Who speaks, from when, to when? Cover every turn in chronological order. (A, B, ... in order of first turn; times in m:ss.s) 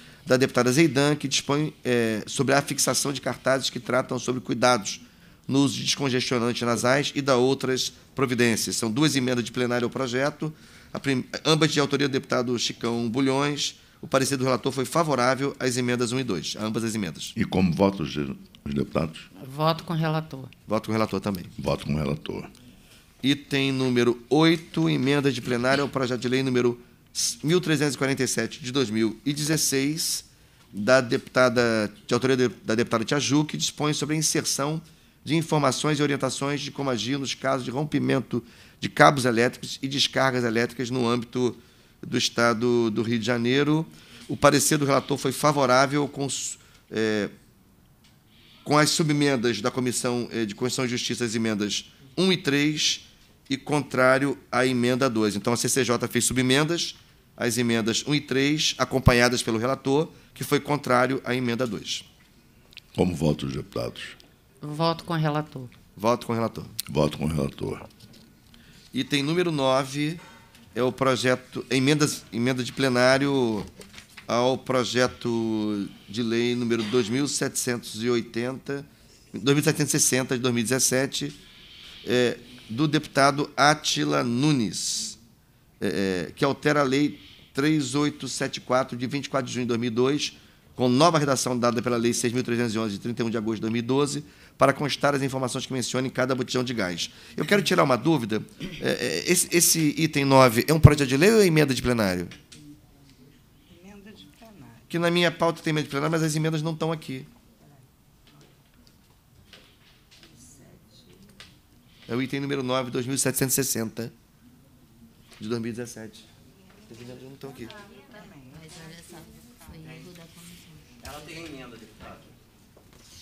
0:00.2-0:17.3 A
0:17.3-0:19.3 B
0:19.4-0:20.5 C
0:20.7-0:21.5 A
0:21.6-0:22.5 B
0:23.2-0:47.3 A
0:48.6-1:02.0 A
1:02.9-1:04.2 B
1:04.6-1:05.7 C
1:06.0-1:06.7 A
1:06.9-1:07.9 B
1:08.9-1:10.2 A
1:10.7-1:13.7 A
1:14.3-1:21.4 A
1:22.0-1:25.2 A
1:25.8-1:42.3 A
1:43.8-1:44.7 D
1:44.9-1:47.3 A
1:52.1-1:54.1 A
1:55.4-1:56.2 A
1:56.9-1:57.7 A
1:58.1-2:00.6 D